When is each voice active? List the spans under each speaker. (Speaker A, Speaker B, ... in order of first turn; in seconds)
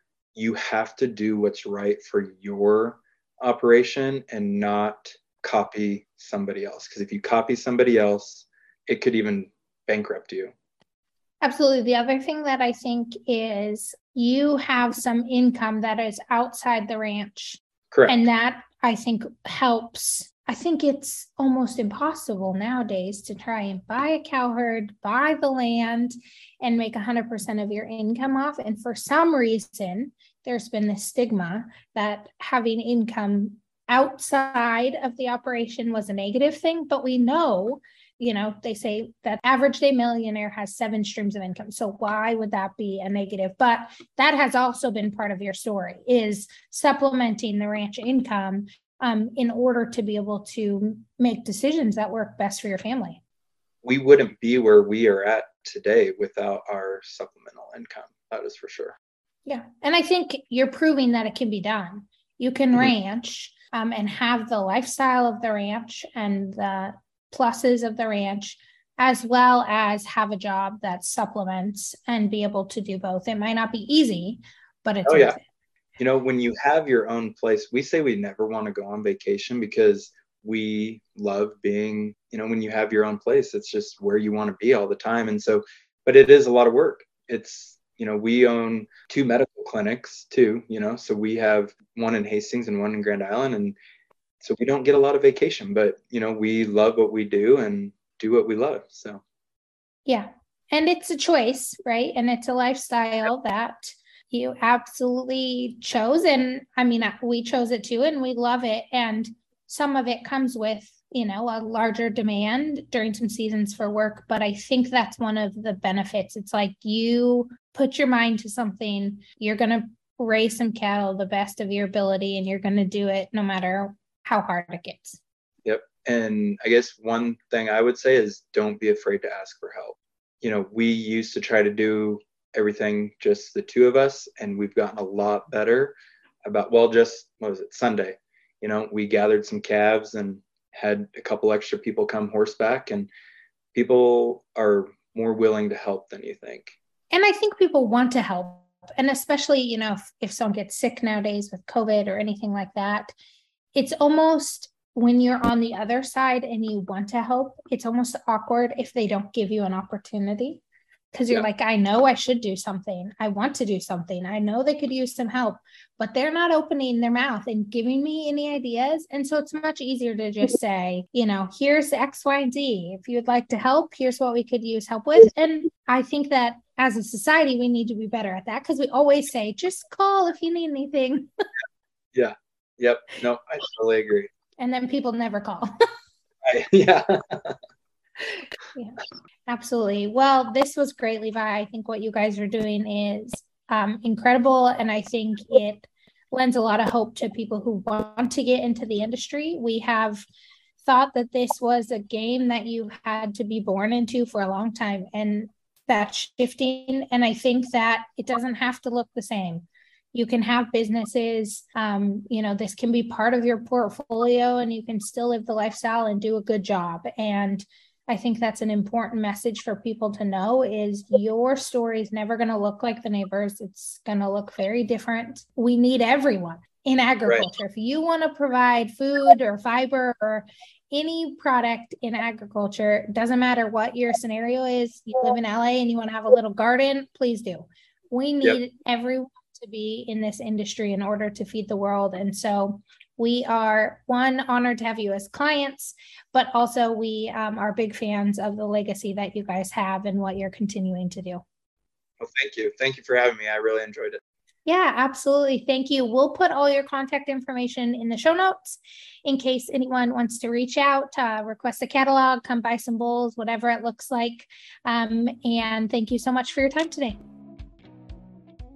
Speaker A: 0.3-10.5, 17.9-18.2, 53.8-58.9, 75.0-75.4, 76.0-93.8, 94.4-99.2, 125.6-143.1, 143.7-146.7, 182.1-184.3, 186.4-187.6, 227.2-227.5, 252.2-254.2
Speaker B: 11.4-53.2, 59.5-75.4, 100.0-125.2, 147.1-153.1, 153.7-160.6, 161.1-181.3, 184.6-185.7, 188.7-200.2, 200.8-251.4, 254.7-267.2